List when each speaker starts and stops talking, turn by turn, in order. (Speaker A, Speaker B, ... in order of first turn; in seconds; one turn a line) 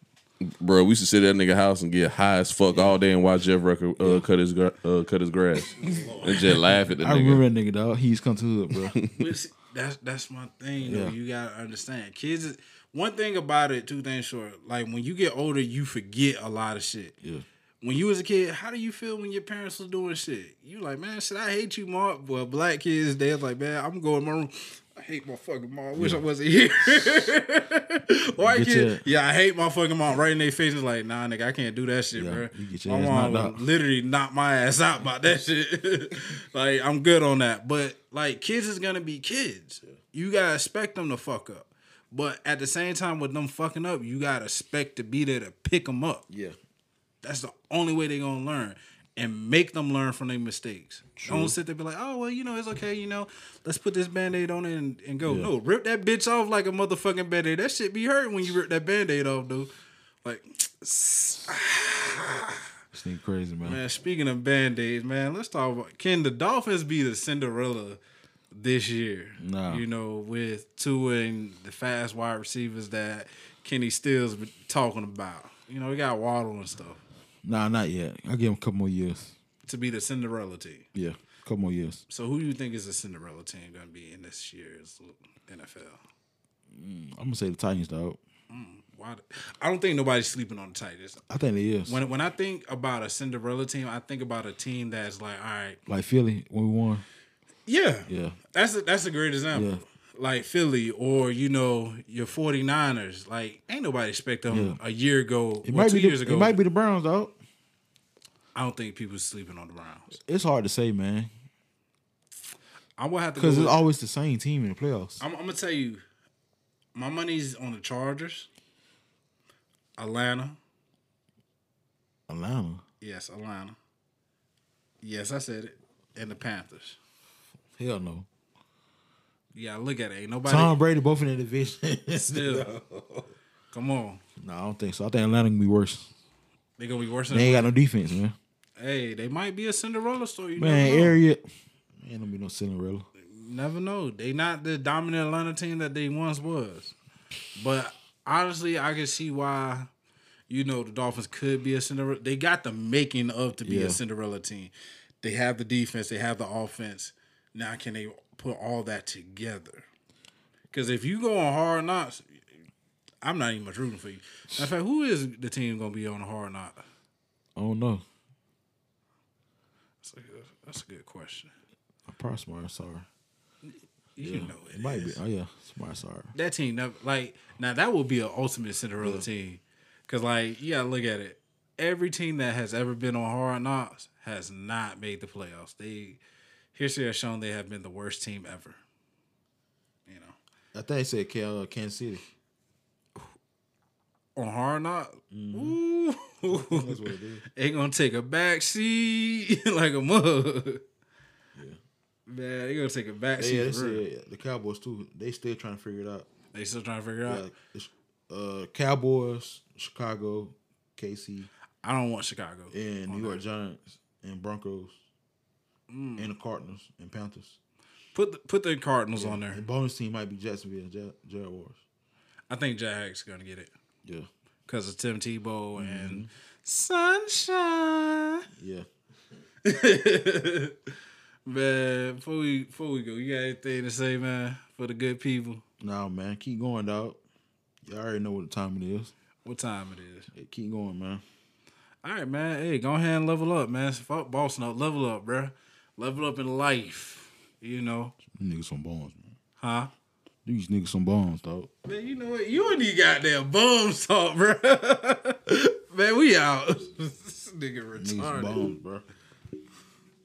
Speaker A: 0.4-7.4
Speaker B: 4.0-4.2
Speaker B: 6.2-9.0
Speaker A: 8.8-9.1
Speaker C: 9.0-17.1
Speaker B: 10.8-11.1
Speaker C: 17.8-46.2
Speaker B: 25.9-26.2
Speaker B: 26.9-27.2
Speaker B: 28.4-29.0
Speaker B: 32.1-33.6
Speaker B: 46.3-46.5
Speaker C: 47.2-59.7
Speaker B: 51.2-51.5
Speaker B: 55.2-55.5
Speaker C: 60.2-62.6
Speaker B: 62.9-63.8
Speaker C: 63.6-68.0
Speaker C: 68.5-77.0
Speaker B: 69.4-69.8
Speaker B: 77.4-79.3
Speaker C: 79.7-80.9
Speaker B: 80.9-82.0
Speaker C: 82.1-86.0
Speaker B: 86.7-88.2
Speaker C: 88.5-91.2
Speaker B: 91.3-92.0
Speaker C: 91.8-95.8
Speaker B: 95.9-97.0
Speaker C: 97.7-106.6
Speaker B: 98.1-98.3
Speaker B: 99.5-99.8
Speaker B: 104.5-104.8
Speaker B: 105.6-107.3
Speaker C: 108.5-110.1
Speaker B: 110.2-111.3
Speaker C: 113.0-113.8
Speaker B: 113.4-115.2
Speaker C: 115.2-116.0
Speaker C: 116.9-118.5
Speaker C: 120.0-120.6
Speaker B: 122.3-122.8
Speaker C: 123.0-123.8
Speaker C: 125.0-127.0
Speaker B: 127.8-128.3
Speaker C: 129.5-130.7
Speaker B: 130.4-133.0
Speaker C: 132.1-132.7
Speaker C: 133.7-134.2
Speaker B: 134.4-136.1
Speaker C: 136.8-137.7
Speaker B: 137.3-138.3
Speaker C: 138.8-141.2
Speaker B: 140.6-141.4
Speaker B: 142.0-143.1
Speaker C: 143.2-146.9
Speaker C: 147.5-149.9
Speaker C: 150.5-159.8
Speaker B: 153.6-154.0
Speaker C: 160.7-162.2
Speaker C: 163.2-166.8
Speaker B: 167.6-168.0
Speaker C: 170.0-171.5
Speaker B: 172.1-173.1
Speaker C: 174.2-175.2
Speaker B: 174.2-176.3
Speaker C: 176.3-186.2
Speaker B: 179.0-179.3
Speaker C: 186.7-188.8
Speaker C: 190.1-190.4
Speaker B: 190.7-192.2
Speaker C: 194.3-197.0
Speaker B: 195.3-195.8
Speaker B: 196.5-197.4
Speaker C: 197.5-200.8
Speaker C: 202.3-204.0
Speaker B: 203.4-206.3
Speaker C: 206.5-207.4
Speaker B: 207.3-211.5
Speaker C: 211.8-213.4
Speaker B: 212.7-214.9
Speaker C: 215.9-216.3
Speaker B: 216.2-217.6
Speaker C: 218.1-219.6
Speaker B: 219.2-221.8
Speaker C: 222.5-223.7
Speaker C: 224.7-228.4
Speaker B: 225.8-226.3
Speaker B: 228.6-228.8
Speaker C: 229.6-230.8
Speaker C: 231.4-235.6
Speaker B: 235.8-237.2
Speaker B: 237.8-239.1
Speaker C: 239.4-240.3
Speaker B: 240.3-241.2
Speaker C: 242.0-248.1
Speaker B: 248.3-249.3
Speaker C: 249.6-249.9
Speaker B: 250.4-251.7
Speaker C: 251.8-258.7
Speaker B: 258.0-259.1